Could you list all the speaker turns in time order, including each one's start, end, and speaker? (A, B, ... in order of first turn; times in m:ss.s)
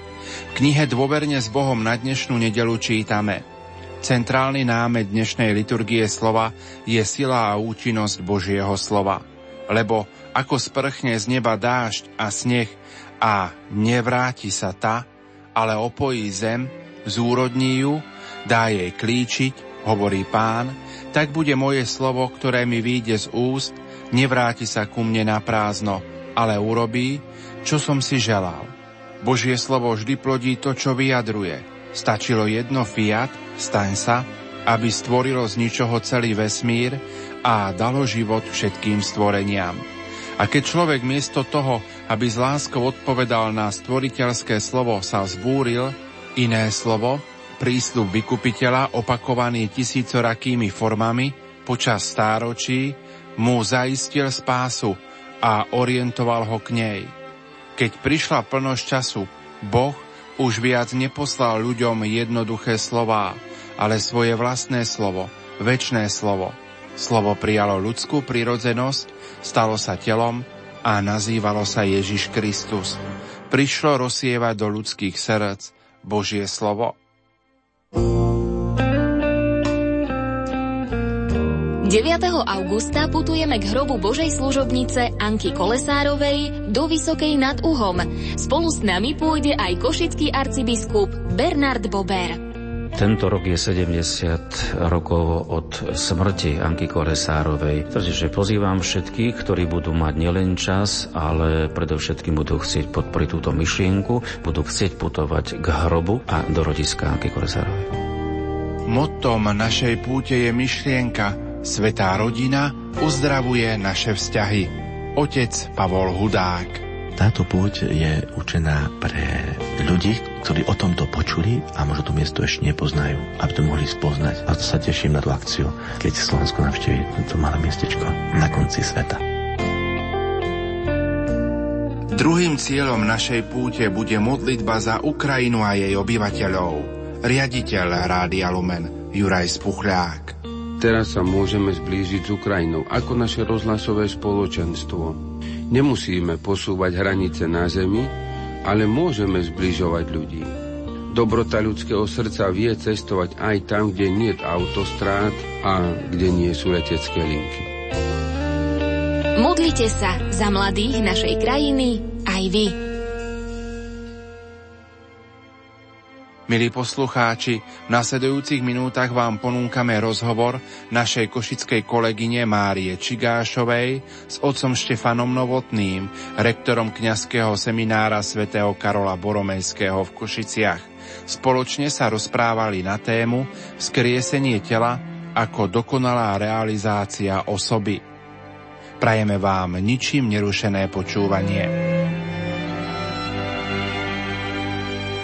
0:00.5-0:03.4 A
0:04.0-0:39.8 A
0:40.4-0:57.1 A
0:57.8-1:16.9 A
1:21.8-1:32.4 B
1:32.9-1:48.0 C
1:48.8-1:56.8 A
1:57.2-2:09.2 D
2:12.1-2:20.4 A
2:20.8-2:30.5 E
2:31.1-2:37.7 E
2:39.3-2:42.8 B
2:46.5-3:08.0 A
3:09.0-3:11.7 A